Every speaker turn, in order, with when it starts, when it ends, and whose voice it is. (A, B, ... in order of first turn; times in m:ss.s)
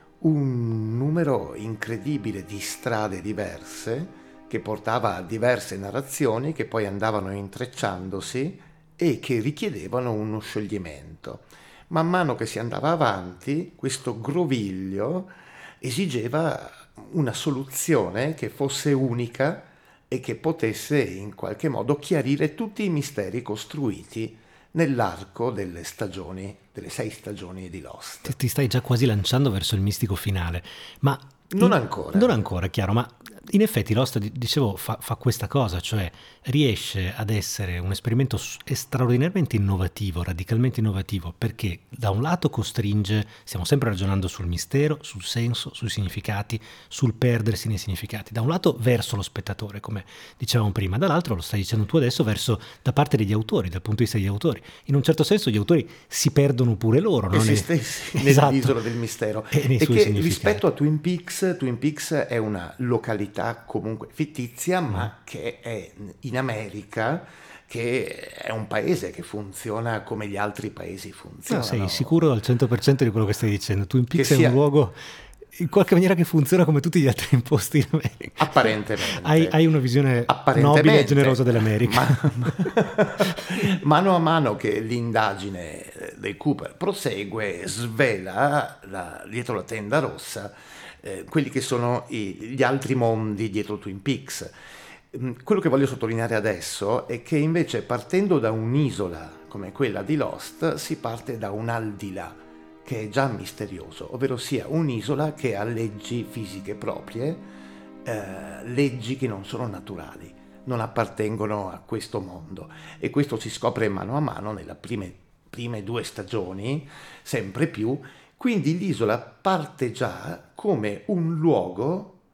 0:00.2-0:28.4 A
0:28.2-0:58.7 B
0:31.5-0:32.4 A
0:57.3-1:12.2 A
0:59.5-1:00.6 B
1:11.5-1:15.0 B
1:14.1-1:14.6 A
1:15.6-1:22.6 B
1:18.4-1:19.6 A
1:20.3-1:34.5 A
1:35.1-1:47.4 A
1:48.0-2:02.2 A